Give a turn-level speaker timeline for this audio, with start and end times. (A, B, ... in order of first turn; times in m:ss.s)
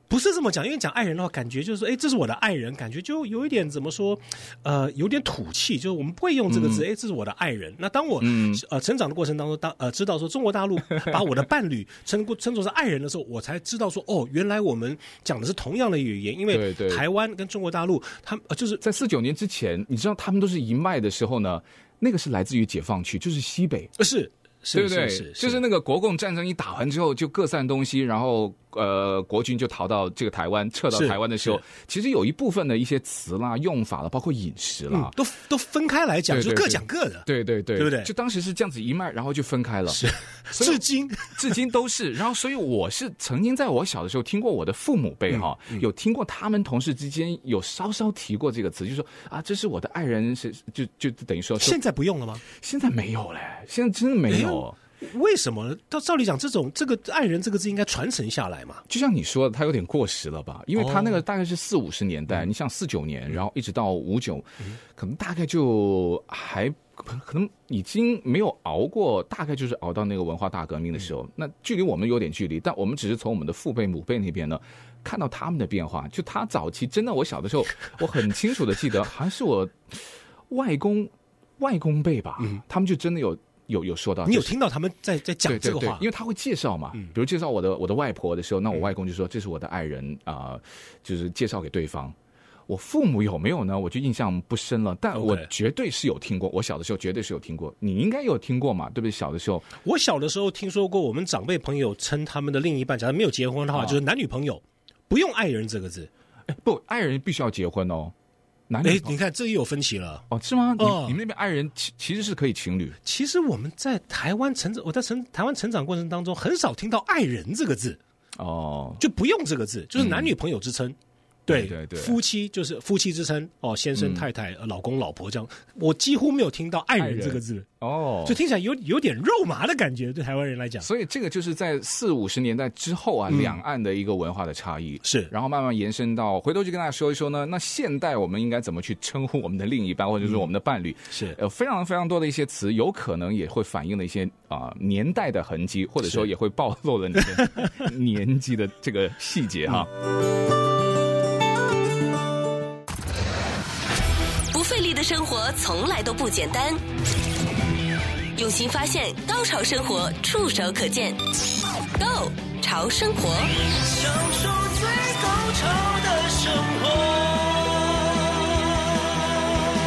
0:00.1-0:18.8 A
0:06.5-0:06.9 B
0:08.2-0:08.6 B
0:16.5-0:17.0 B
0:18.8-0:23.9 B
0:24.0-0:25.6 A
0:24.7-0:35.2 B
0:30.9-0:31.6 A
0:34.9-0:38.1 A
0:36.3-0:51.8 B
0:39.9-0:41.6 A
0:45.3-0:45.8 A
0:51.6-0:52.4 A
0:52.5-0:54.8 B
0:54.3-0:58.8 A
0:58.9-1:24.5 B
1:00.8-1:01.2 A
1:24.3-1:26.1 A
1:25.4-1:32.2 B
1:32.7-1:39.7 B
1:35.2-1:35.5 A
1:39.8-1:46.1 A
1:43.7-1:44.0 B
1:46.5-1:48.1 B
1:48.7-1:49.2 B
1:48.8-1:50.3 A
1:50.3-1:53.0 B
1:50.8-1:51.2 A
1:53.0-1:58.0 A
1:58.4-1:59.0 B
1:59.0-2:01.0 A
2:00.0-2:00.3 B
2:01.5-2:02.2 B
2:01.5-2:07.7 A
2:04.0-2:04.3 B
2:07.0-2:08.4 B
2:08.2-2:10.9 A
2:10.8-2:29.9 B
2:13.3-2:13.6 A
2:15.0-2:15.3 A
2:21.1-2:21.4 A
2:34.5-2:36.8 C
2:38.4-2:41.2 C
2:42.0-2:43.5 C
2:43.7-2:49.0 D